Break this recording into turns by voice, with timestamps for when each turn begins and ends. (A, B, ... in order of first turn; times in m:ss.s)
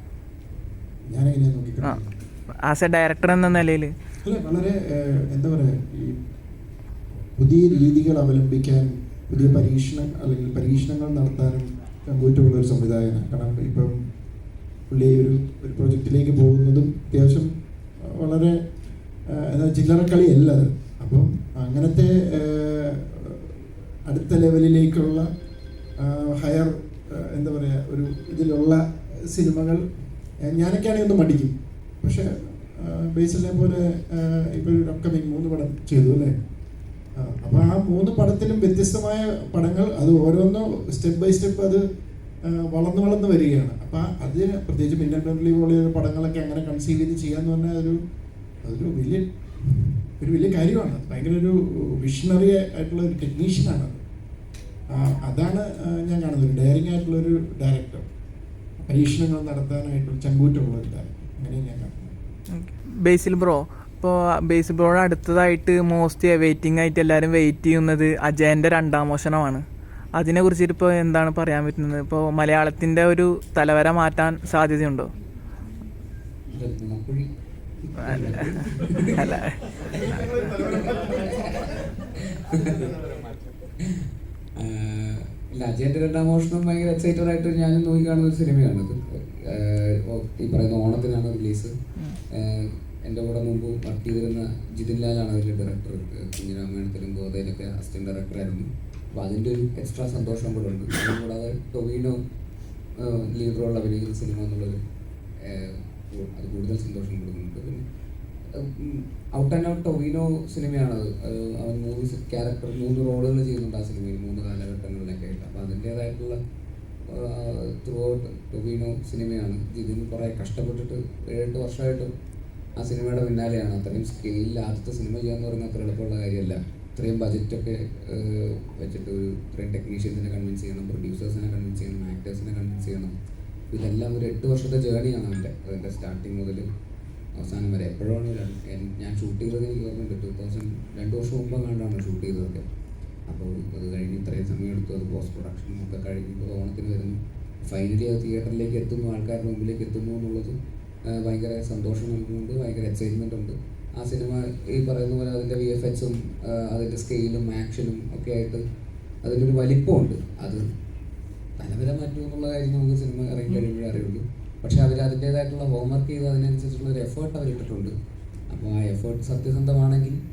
0:01.1-0:02.1 A
0:02.6-0:03.9 B
0:04.2-0:06.1 A
0:07.3-0:13.9 A
0:14.9-0:17.5 A
0:18.1-0:18.5 A
0:19.3-0:25.3 A
0:26.0-0:29.8 A
0:30.4-0:36.3 A
0:37.2-0:41.8 A
0:42.5-0:48.0 A
0:48.6-0:54.0 A
0:54.9-0:58.0 A
0:58.8-1:02.1 A
1:02.5-1:09.6 B
1:10.2-1:15.1 B
1:16.5-1:17.3 C
1:17.8-1:19.4 C
1:18.0-1:18.5 B
1:19.2-1:19.6 B
1:19.9-1:21.8 C
1:19.9-1:21.5 A
1:22.5-1:23.0 C
1:24.6-1:31.7 C
1:32.3-1:42.2 C
1:43.0-1:44.8 C
1:45.4-1:47.8 C
1:48.6-1:56.4 C
1:57.1-2:02.1 C
2:02.8-2:13.1 C
2:13.7-2:16.6 C
2:17.4-2:22.6 C
2:23.3-2:30.6 C
2:31.1-2:38.6 C
2:39.2-2:40.6 C
2:41.6-2:47.9 C
2:48.5-2:50.2 C